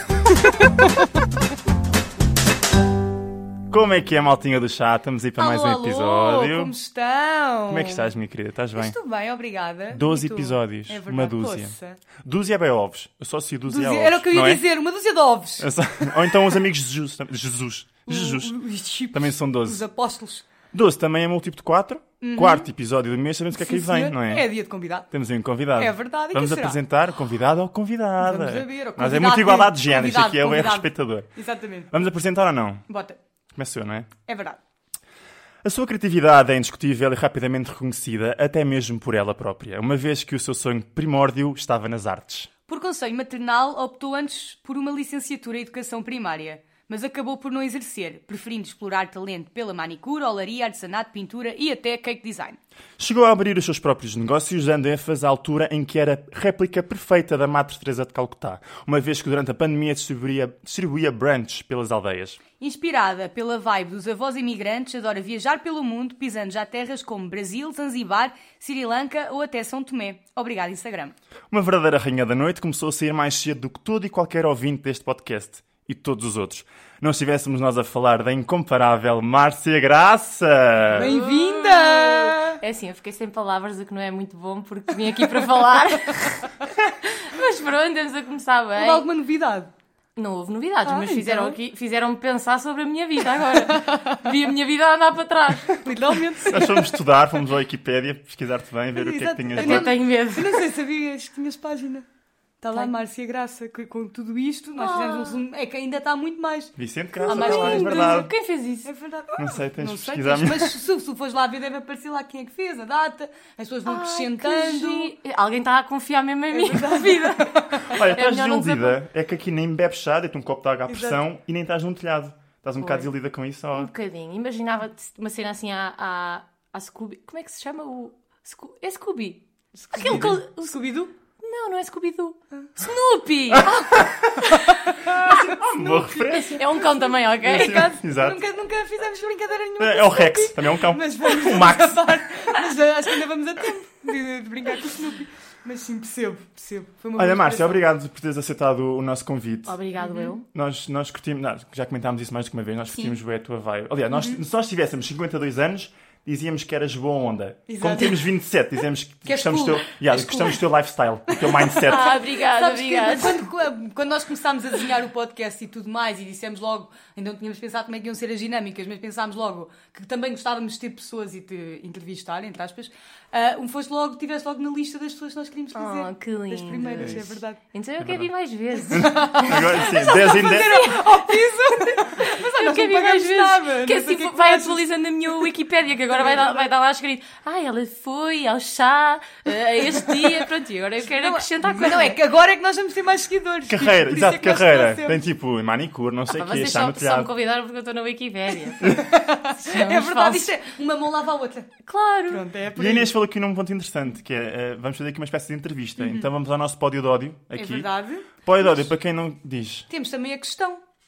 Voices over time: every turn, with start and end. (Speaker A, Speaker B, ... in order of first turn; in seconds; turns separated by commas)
Speaker A: 0.5-0.9, Speaker B: 3.7-6.7, Speaker A: 5.4-8.1, Speaker B: 7.7-9.0, Speaker A: 8.8-12.0, Speaker B: 9.9-14.7, Speaker A: 13.7-15.7, Speaker B: 15.6-18.6, Speaker A: 18.1-20.4, Speaker B: 19.1-19.8, Speaker B: 20.7-24.5, Speaker A: 22.2-22.7, Speaker A: 23.5-25.1, Speaker B: 25.1-31.3, Speaker A: 25.8-26.8, Speaker A: 28.2-31.9, Speaker B: 31.9-32.8, Speaker A: 32.9-33.2, Speaker B: 33.5-34.1, Speaker A: 34.3-34.6, Speaker B: 35.6-42.5, Speaker A: 42.7-52.6, Speaker B: 53.0-62.4, Speaker A: 62.6-71.2, Speaker B: 71.5-81.1, Speaker A: 80.9-82.6, Speaker C: 81.0-89.1, Speaker A: 88.8-89.7, Speaker C: 90.2-95.9, Speaker A: 90.8-91.6, Speaker A: 95.7-96.9, Speaker B: 96.4-100.0, Speaker A: 99.0-102.1, Speaker C: 99.5-100.6, Speaker A: 102.6-106.8, Speaker C: 104.8-105.4, Speaker B: 106.8-108.3, Speaker C: 107.2-108.9, Speaker A: 107.3-108.3, Speaker A: 108.8-115.1, Speaker B: 109.4-110.8, Speaker C: 113.9-119.0, Speaker A: 116.5-117.9, Speaker B: 117.9-123.9, Speaker A: 120.9-121.2, Speaker C: 122.8-123.1, Speaker C: 123.7-130.8, Speaker A: 129.9-131.1, Speaker C: 131.4-134.7, Speaker B: 133.5-134.5, Speaker A: 133.6-147.8, Speaker B: 135.0-136.6, Speaker C: 136.5-137.9, Speaker B: 137.4-138.4, Speaker B: 139.8-142.1, Speaker B: 147.2-149.8, Speaker C: 149.7-150.4, Speaker A: 150.0-150.3, Speaker B: 150.5-162.2, Speaker A: 154.1-154.4, Speaker A: 157.7-158.3, Speaker A: 159.3-160.6, Speaker A: 161.3-177.6, Speaker C: 161.9-163.4, Speaker C: 175.8-192.2, Speaker B: 178.0-178.3, Speaker A: 178.9-184.9, Speaker B: 178.9-180.9, Speaker A: 186.1-186.7, Speaker A: 191.1-195.2, Speaker B: 193.7-197.3, Speaker C: 196.3-200.5, Speaker A: 198.8-201.8, Speaker C: 201.9-202.5, Speaker A: 202.3-203.1, Speaker B: 202.7-207.9, Speaker A: 206.0-206.3, Speaker A: 207.6-208.7, Speaker B: 208.4-209.9, Speaker A: 209.9-210.8